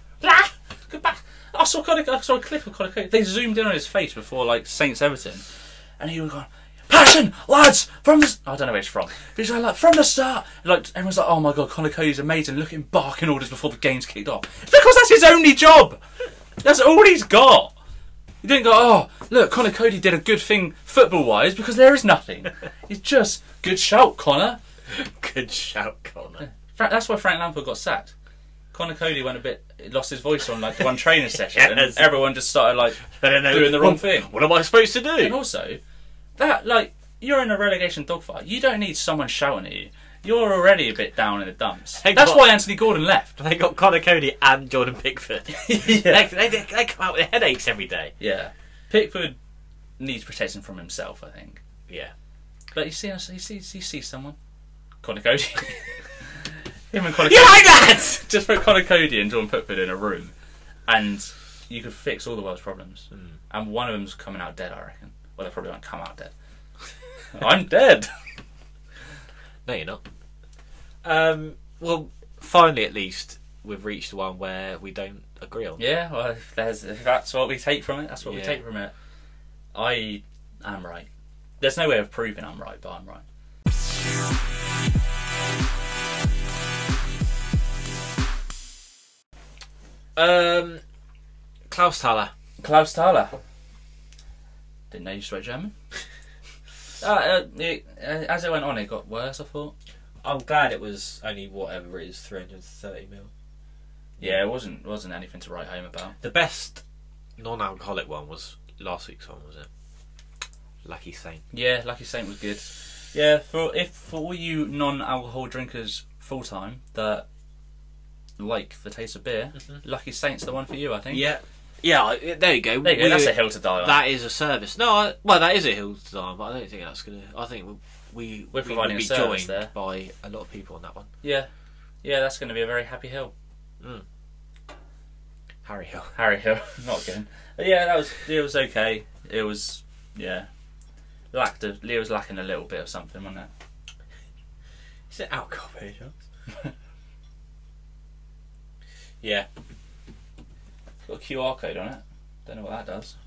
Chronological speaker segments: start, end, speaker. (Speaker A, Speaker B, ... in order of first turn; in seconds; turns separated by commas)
Speaker A: 0.2-5.4, Speaker A: 6.0-16.0, Speaker A: 16.6-17.7, Speaker A: 18.4-24.6, Speaker B: 24.9-26.4, Speaker A: 26.4-28.1, Speaker A: 28.7-34.3, Speaker B: 31.4-32.2, Speaker B: 33.0-35.4, Speaker A: 35.2-35.8, Speaker A: 36.4-43.3, Speaker B: 42.0-42.7, Speaker B: 43.4-48.1, Speaker A: 45.5-46.3, Speaker A: 48.2-49.4, Speaker A: 50.0-51.6, Speaker A: 52.7-54.4, Speaker A: 55.0-60.3, Speaker B: 57.2-58.2, Speaker A: 60.9-66.3, Speaker A: 67.3-68.1, Speaker B: 69.7-70.0, Speaker B: 71.0-75.8, Speaker A: 75.8-78.9, Speaker B: 78.2-78.6, Speaker A: 79.7-81.1, Speaker A: 81.6-83.2, Speaker B: 90.2-90.8, Speaker B: 91.7-92.3, Speaker A: 92.6-93.4, Speaker A: 94.9-95.7, Speaker A: 97.0-99.7, Speaker B: 100.2-103.3, Speaker A: 104.2-106.2, Speaker B: 106.2-106.8, Speaker B: 107.4-109.7, Speaker B: 110.8-111.4, Speaker A: 111.5-117.3, Speaker A: 118.4-121.3, Speaker B: 121.1-131.1, Speaker A: 122.8-124.0, Speaker A: 128.5-129.7, Speaker A: 131.2-131.5, Speaker A: 132.0-133.3, Speaker B: 135.6-136.2, Speaker A: 136.1-140.5, Speaker A: 141.3-143.5, Speaker B: 145.1-146.1, Speaker B: 149.2-149.5, Speaker A: 151.0-153.2